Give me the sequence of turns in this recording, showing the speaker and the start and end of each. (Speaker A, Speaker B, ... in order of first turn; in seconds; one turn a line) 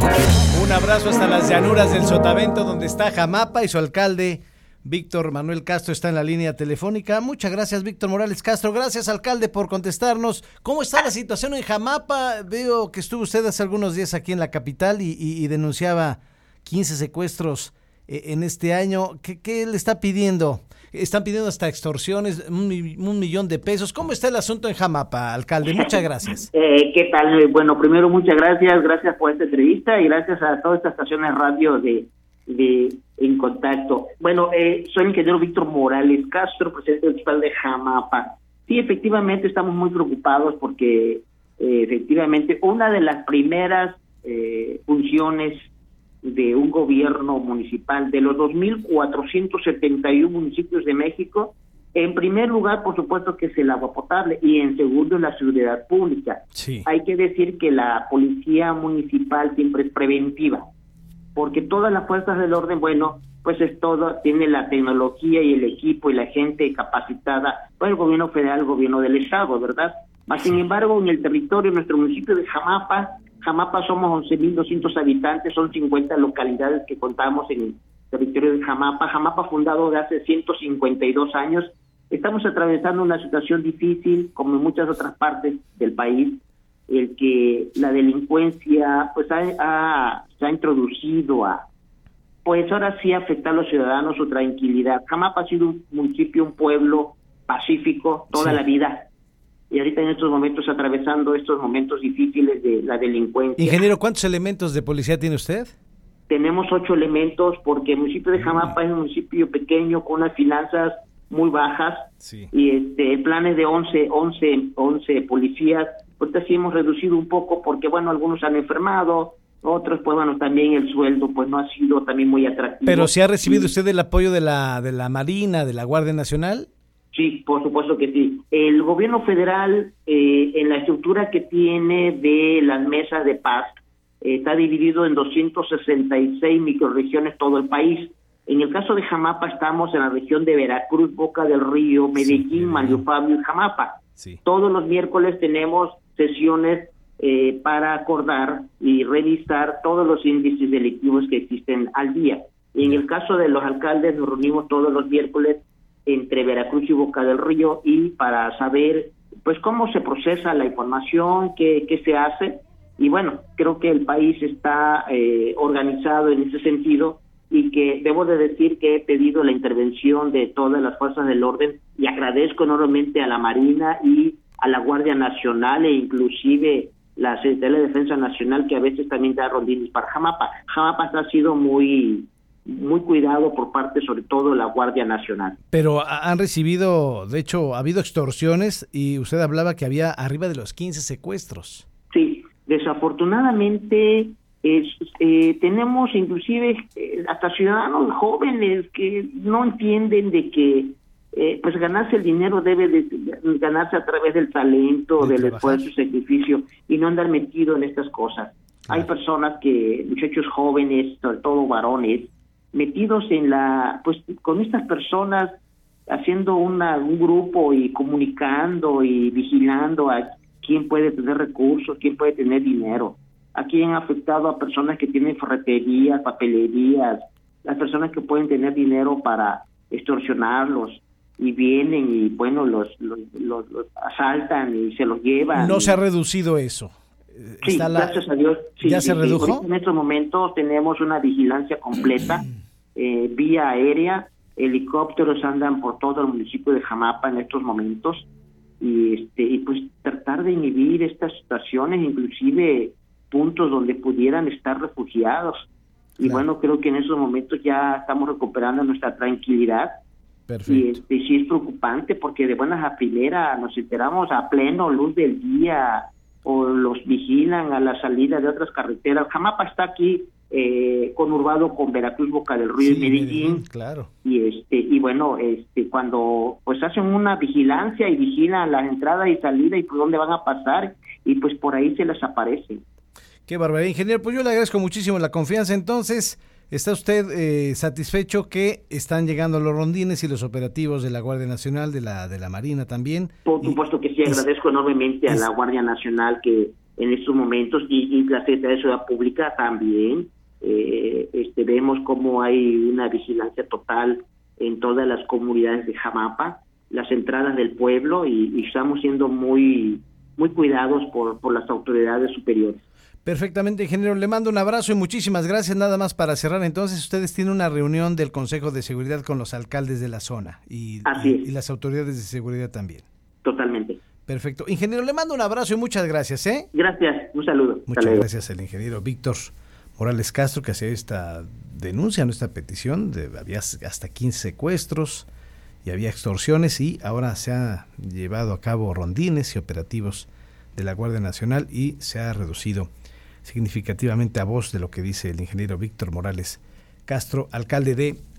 Speaker A: 0.3-26.5
Speaker B: 25.6-26.0
Speaker B: 26.5-45.7
Speaker B: 46.2-60.6
Speaker A: 56.5-56.9
Speaker B: 61.3-91.7
Speaker B: 92.4-99.0
Speaker A: 98.3-98.6
Speaker B: 99.7-103.9
Speaker A: 103.6-105.7
Speaker B: 106.3-123.7
Speaker A: 108.3-108.7
Speaker A: 112.2-112.5
Speaker A: 122.8-126.7
Speaker B: 127.1-185.6
Speaker A: 142.2-143.0
Speaker A: 185.7-191.8
Speaker B: 192.1-215.6
Speaker A: 205.2-205.9
Speaker B: 216.1-236.0
Speaker A: 235.5-238.2
Speaker B: 237.6-248.3
Speaker A: 238.8-239.6
Speaker B: 248.8-259.9
Speaker A: 256.2-256.4
Speaker A: 260.5-261.0
Speaker B: 260.7-273.6
Speaker A: 272.8-274.1
Speaker B: 274.2-282.8
Speaker A: 283.5-294.4
Speaker B: 293.4-312.8
Speaker A: 313.2-323.0
Speaker B: 321.0-321.5
Speaker B: 323.4-324.0
Speaker A: 324.3-326.7
Speaker B: 326.7-328.2
Speaker A: 327.9-335.3
Speaker A: 335.8-342.9
Speaker A: 343.4-348.2